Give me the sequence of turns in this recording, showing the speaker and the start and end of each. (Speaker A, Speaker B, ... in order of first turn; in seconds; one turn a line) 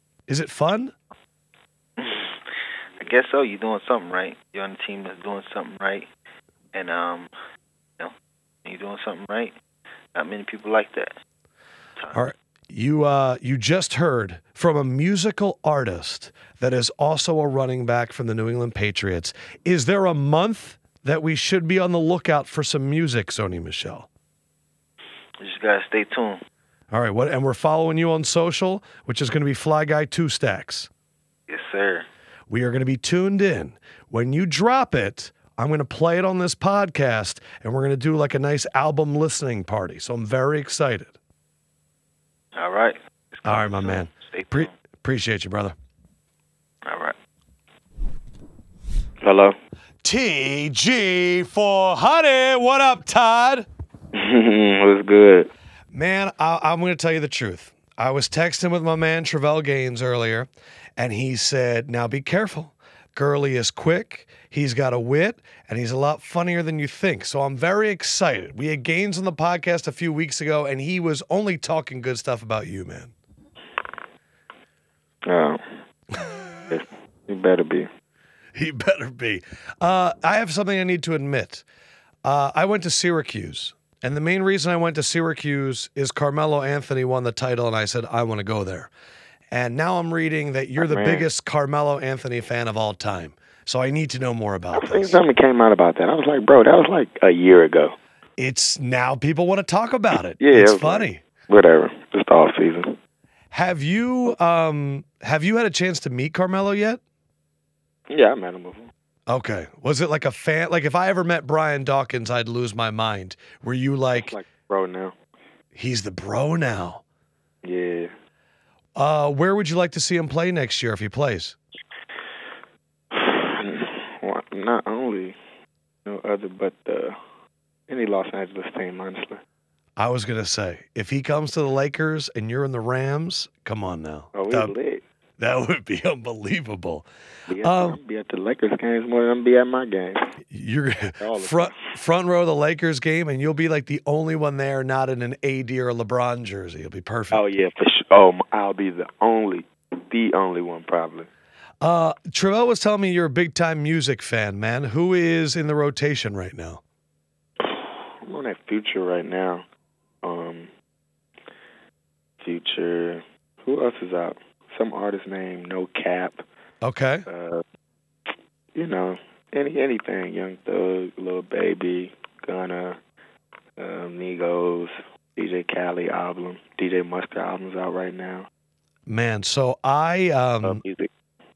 Speaker A: 0.3-0.9
Speaker B: 2.0-6.1
Speaker B: 6.7-7.3
Speaker B: 8.6-9.5
Speaker B: 10.2-11.1
Speaker A: 12.1-24.1
Speaker B: 25.4-26.4
Speaker A: 26.9-30.9
Speaker B: 31.5-32.1
Speaker A: 32.5-41.1
Speaker B: 42.5-44.7
Speaker A: 43.5-45.8
Speaker B: 46.9-47.1
Speaker C: 49.2-49.6
Speaker A: 50.0-53.7
Speaker C: 54.1-55.5
Speaker A: 55.9-73.1
Speaker C: 75.3-75.8
Speaker C: 76.7-77.9
Speaker A: 78.5-81.6
Speaker A: 82.2-88.9
Speaker A: 89.5-95.2
Speaker C: 90.8-91.3
Speaker C: 94.7-98.0
Speaker A: 98.4-101.2
Speaker C: 100.4-103.0
Speaker A: 103.5-107.0
Speaker C: 108.1-108.9
Speaker A: 109.3-114.4
Speaker C: 114.2-115.2
Speaker A: 115.8-117.0
Speaker C: 117.6-118.1
Speaker A: 119.0-121.6
Speaker C: 123.1-125.4
Speaker C: 126.0-127.2
Speaker C: 127.9-129.4
Speaker A: 130.0-134.8
Speaker C: 134.3-135.0
Speaker A: 135.4-137.1
Speaker C: 137.5-140.3
Speaker A: 137.6-138.0
Speaker A: 140.5-147.4
Speaker C: 141.2-141.8
Speaker C: 147.3-151.3
Speaker A: 151.8-156.8
Speaker C: 157.6-159.7
Speaker C: 160.2-160.7
Speaker C: 162.4-166.4
Speaker A: 166.8-167.2
Speaker C: 167.3-167.6
Speaker C: 168.8-173.0
Speaker C: 173.8-178.5
Speaker A: 179.1-180.8
Speaker C: 180.6-181.1